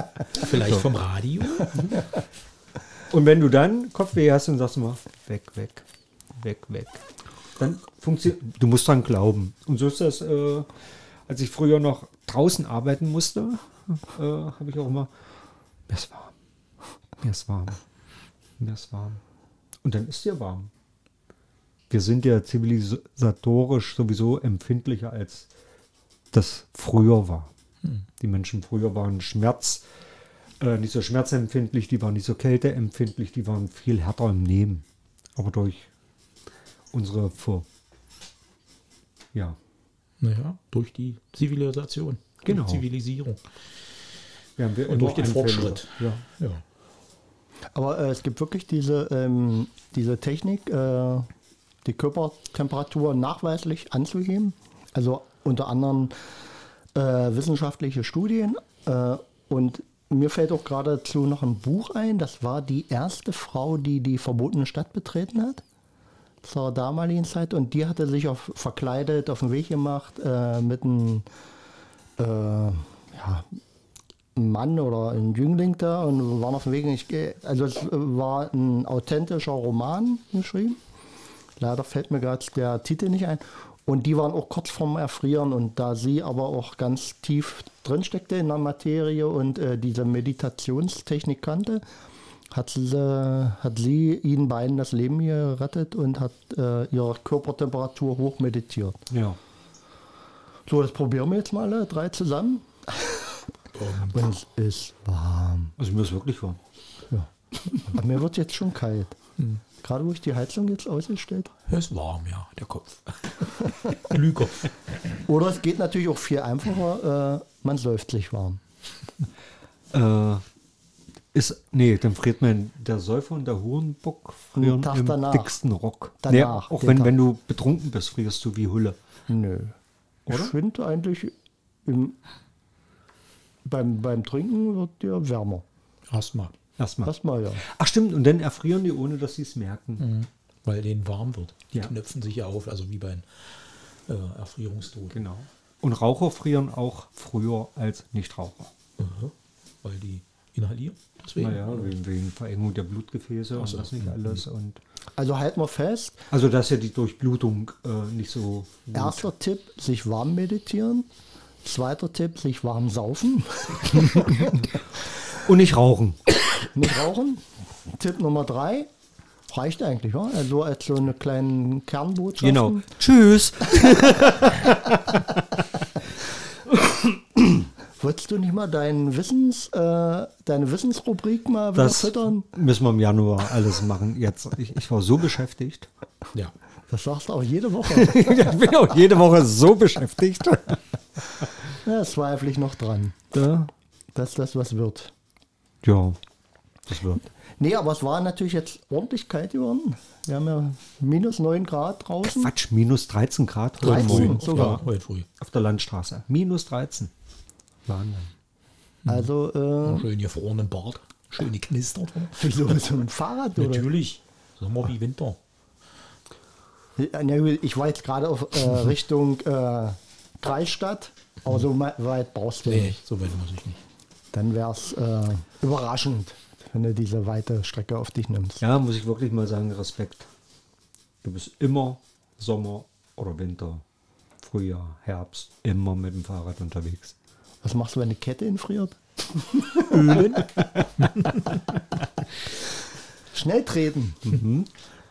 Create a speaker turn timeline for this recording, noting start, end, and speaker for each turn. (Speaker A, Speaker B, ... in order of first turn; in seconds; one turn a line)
Speaker A: 0.3-1.9
Speaker B: 0.5-0.8
Speaker B: 3.1-5.8
Speaker B: 6.4-7.0
Speaker B: 7.6-10.7
Speaker B: 11.3-15.1
Speaker B: 15.9-16.3
Speaker B: 17.2-17.8
Speaker B: 18.6-19.2
Speaker B: 19.8-20.7
Speaker B: 21.9-25.5
Speaker B: 26.3-27.5
Speaker B: 28.2-29.8
Speaker B: 30.6-34.8
Speaker B: 35.4-35.9
Speaker B: 36.9-37.6
Speaker A: 40.2-43.4
Speaker B: 42.4-42.8
Speaker B: 44.6-46.2
Speaker A: 44.9-46.6
Speaker C: 47.7-51.3
Speaker C: 51.8-56.2
Speaker C: 56.9-65.6
Speaker C: 66.4-71.2
Speaker C: 72.2-73.5
Speaker C: 74.3-80.8
Speaker C: 81.6-91.8
Speaker C: 92.5-99.0
Speaker B: 99.1-99.4
Speaker C: 100.7-103.4
Speaker A: 103.7-104.1
Speaker C: 104.1-105.7
Speaker B: 105.8-106.6
Speaker C: 107.1-109.1
Speaker C: 109.8-111.5
Speaker A: 111.7-114.7
Speaker C: 115.3-118.6
Speaker B: 119.9-120.4
Speaker B: 121.3-129.0
Speaker C: 124.5-125.5
Speaker C: 126.2-127.1
Speaker C: 129.3-129.7
Speaker B: 130.3-130.5
Speaker C: 130.3-131.3
Speaker C: 131.8-132.2
Speaker C: 133.6-135.6
Speaker A: 136.1-136.5
Speaker B: 136.8-140.0
Speaker C: 137.0-137.6
Speaker A: 140.0-143.2
Speaker A: 144.1-145.2
Speaker B: 145.1-148.7
Speaker A: 149.0-151.9
Speaker B: 151.3-154.8
Speaker A: 153.6-154.4
Speaker C: 155.2-156.2
Speaker B: 156.3-159.2
Speaker C: 158.9-161.1
Speaker C: 161.6-164.7
Speaker B: 165.4-166.2
Speaker C: 166.7-168.9
Speaker C: 169.5-172.8
Speaker B: 172.4-175.6
Speaker B: 176.7-177.6
Speaker C: 178.0-182.5
Speaker B: 181.7-185.9
Speaker C: 186.9-188.5
Speaker B: 187.9-190.8
Speaker C: 191.8-193.2
Speaker B: 193.3-193.7
Speaker C: 194.1-195.1
Speaker B: 195.8-196.2
Speaker B: 196.9-197.2
Speaker C: 197.6-202.5
Speaker B: 202.2-204.8
Speaker A: 203.8-205.3
Speaker C: 203.8-204.8
Speaker B: 205.4-207.1
Speaker B: 207.8-208.3
Speaker C: 209.1-210.1
Speaker A: 209.8-212.6
Speaker C: 212.3-213.9
Speaker A: 213.6-215.4
Speaker C: 217.0-223.0
Speaker A: 222.6-223.8
Speaker C: 224.3-228.6
Speaker B: 228.6-230.3
Speaker B: 231.2-233.8
Speaker B: 234.4-237.1
Speaker C: 237.6-239.9
Speaker A: 239.9-241.4
Speaker C: 243.3-244.4
Speaker B: 244.2-244.7